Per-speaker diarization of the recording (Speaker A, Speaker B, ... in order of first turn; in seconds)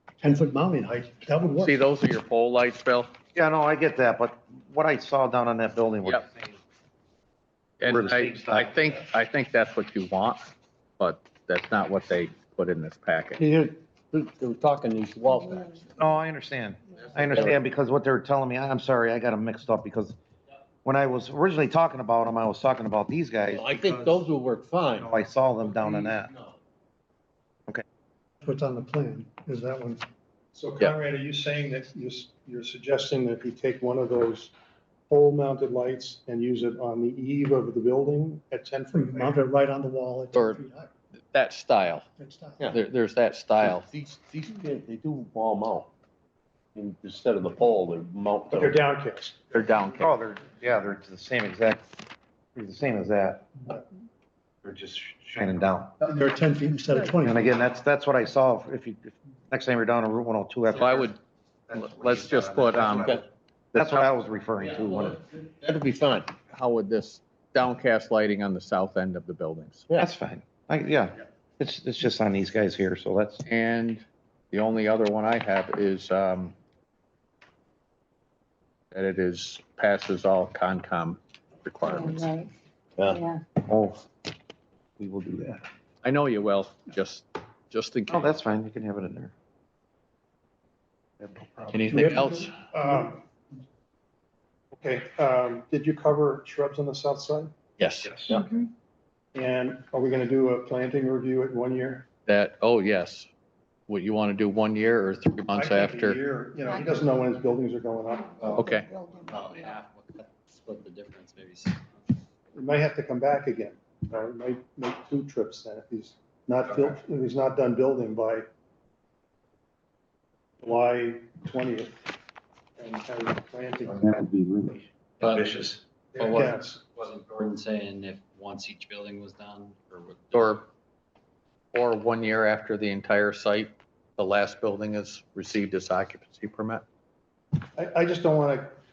Speaker A: 0.2-1.8, 28.4-30.0, 38.9-40.9, 42.2-42.8, 56.0-57.4, 92.0-92.3
Speaker B: 1.6-3.1, 7.8-10.5, 11.0-13.4, 40.3-40.6, 41.2-42.1, 42.7-43.9, 49.5-50.1, 60.7-61.2, 61.7-63.2, 63.8-64.1, 66.5-69.9, 73.5-76.6, 78.9-82.3, 86.0-88.3, 91.7-92.6, 97.8-98.2, 102.3-103.3, 103.9-106.2, 108.5-108.9, 130.3-130.7, 131.7-136.8
Speaker C: 3.4-6.6, 7.8-9.0, 16.0-20.2, 20.9-24.3, 24.9-26.3, 50.0-51.9, 52.5-53.6, 54.6-56.0, 57.2-61.1, 61.7-63.2, 63.7-65.2, 70.0-73.4, 83.6-84.0, 85.0-85.6, 88.1-89.3, 91.2-92.3, 98.1-98.3, 124.0-125.7
Speaker D: 13.4-15.9, 17.3-17.6, 23.5-25.1, 25.6-26.6, 43.6-45.9, 46.8-48.8, 62.9-63.2, 65.1-66.3, 83.0-83.2
Speaker E: 30.5-34.5, 35.1-39.4, 48.5-49.4, 92.6-93.2, 94.7-97.5, 99.3-102.1, 105.5-108.7, 112.5-118.5, 120.6-122.1, 122.8-124.2, 126.1-126.8, 137.8-138.7
Speaker F: 81.8-82.5, 83.0-83.4, 106.7-107.2, 108.4-109.5
Speaker G: 109.2-111.9, 125.2-130.6